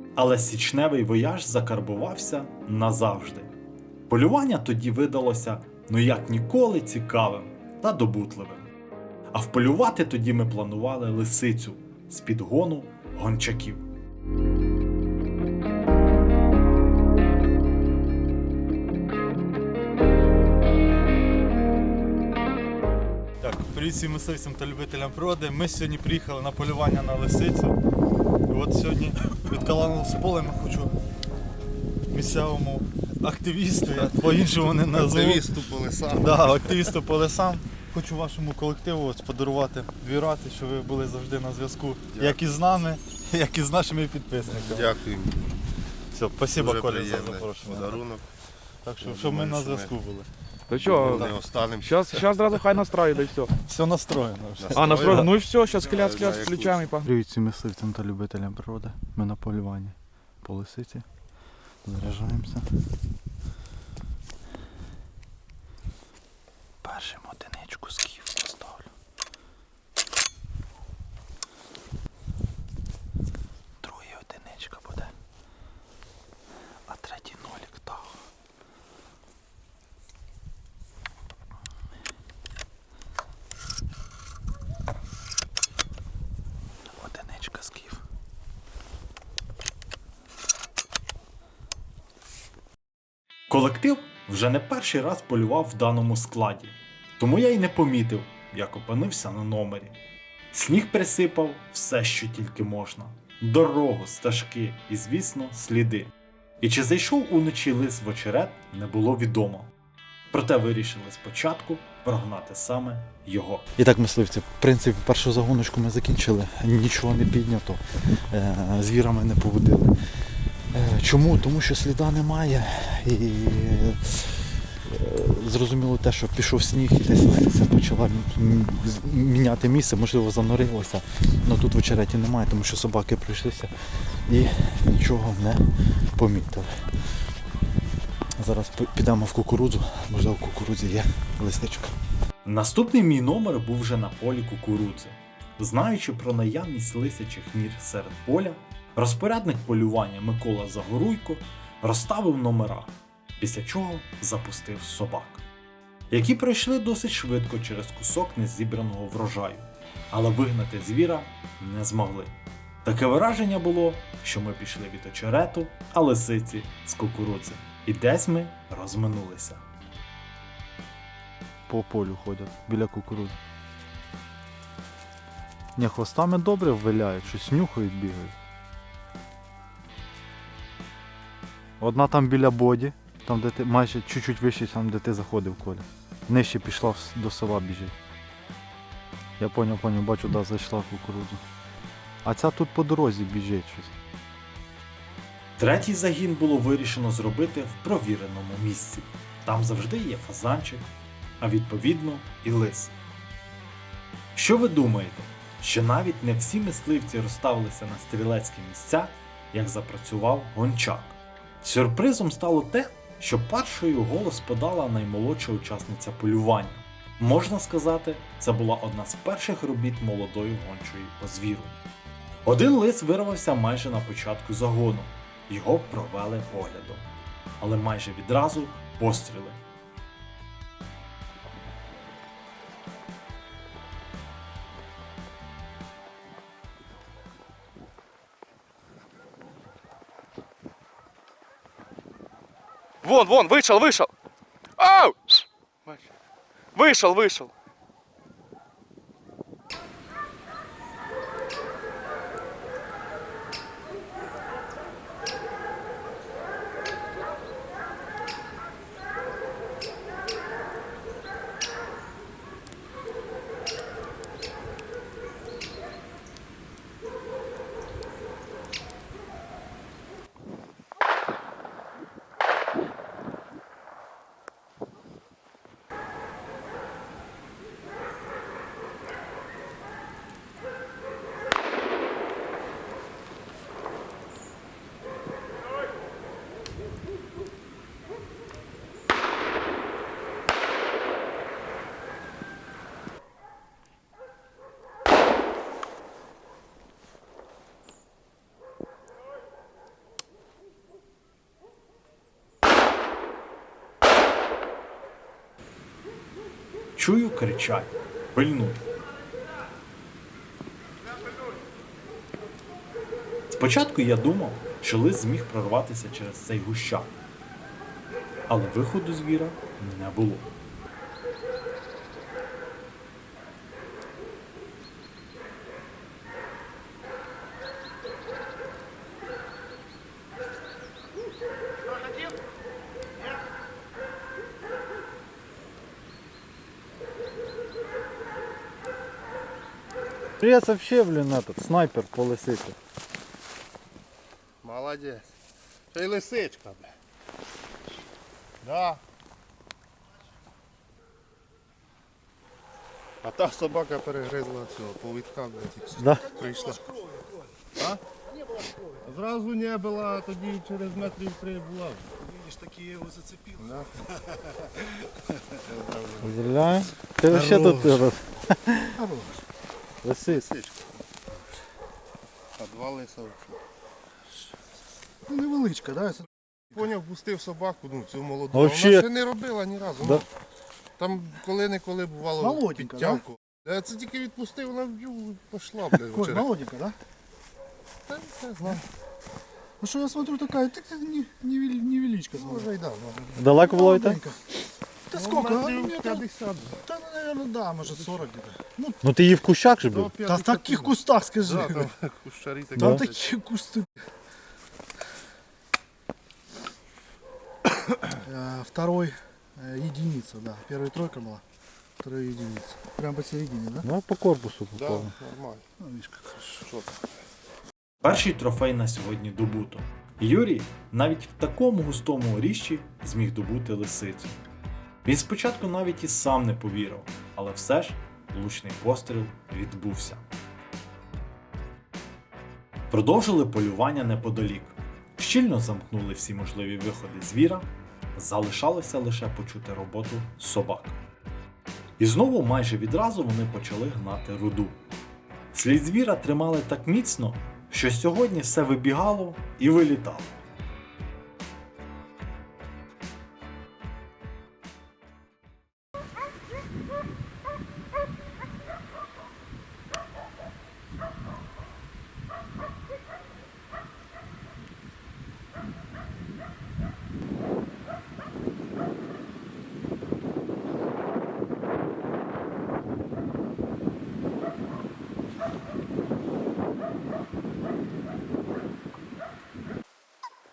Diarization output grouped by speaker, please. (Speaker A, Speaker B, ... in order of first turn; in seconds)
Speaker A: 0.2-3.5, 4.1-8.7, 9.3-13.8, 93.5-100.0, 100.5-109.7, 110.3-113.7, 142.4-155.4, 156.1-169.6, 195.6-200.9, 201.4-202.9, 204.3-221.8, 222.4-227.1, 227.6-229.6, 307.0-308.8, 313.5-317.1, 318.5-320.5, 418.0-424.4, 425.1-430.2, 432.9-441.0, 442.0-444.8, 445.5-450.4
Speaker B: 23.4-27.8, 28.5-30.9, 32.1-35.5, 36.2-44.9, 46.1-48.0, 48.9-50.3, 53.6-55.3, 57.0-61.0, 61.9-62.7, 66.8-68.9, 73.8-75.1, 76.9-78.2, 87.0-88.0, 113.8-119.9, 120.7-133.7, 134.3-135.6, 136.2-136.7, 138.4-141.9, 171.7-173.4, 175.8-178.4, 181.8-187.9, 189.4-191.4, 192.2-193.9, 340.4-342.8, 356.0-356.3, 366.2-369.0, 370.0-370.5, 378.5-379.1, 393.4-394.2, 399.0-400.1, 402.8-403.1, 413.8-415.1
Speaker C: 34.0-36.7, 42.1-42.4, 44.5-45.5, 46.5-48.2, 49.0-50.0, 50.7-52.2, 54.6-56.9, 344.6-345.3, 345.9-346.9, 348.6-349.0, 353.2-356.9, 357.8-358.0, 358.9-362.1, 363.6-364.1, 365.6-366.4, 370.3-370.9, 372.6-373.6, 376.7-380.2, 381.0-386.5, 388.1-388.8, 392.4-393.4, 395.1-396.8, 399.9-403.2, 414.7-415.6, 416.6-416.9
Speaker D: 50.7-53.5, 54.7-57.1, 243.0-244.1, 244.8-246.1, 246.8-247.5
Speaker E: 362.7-363.2, 367.3-367.6, 369.0-369.4, 375.3-376.3, 382.4-383.2, 386.1-387.0, 389.8-392.7, 393.4-394.4, 395.1-396.2, 396.9-399.0, 400.2-401.9, 402.8-403.9, 408.2-411.4, 412.0-413.9, 415.9-416.3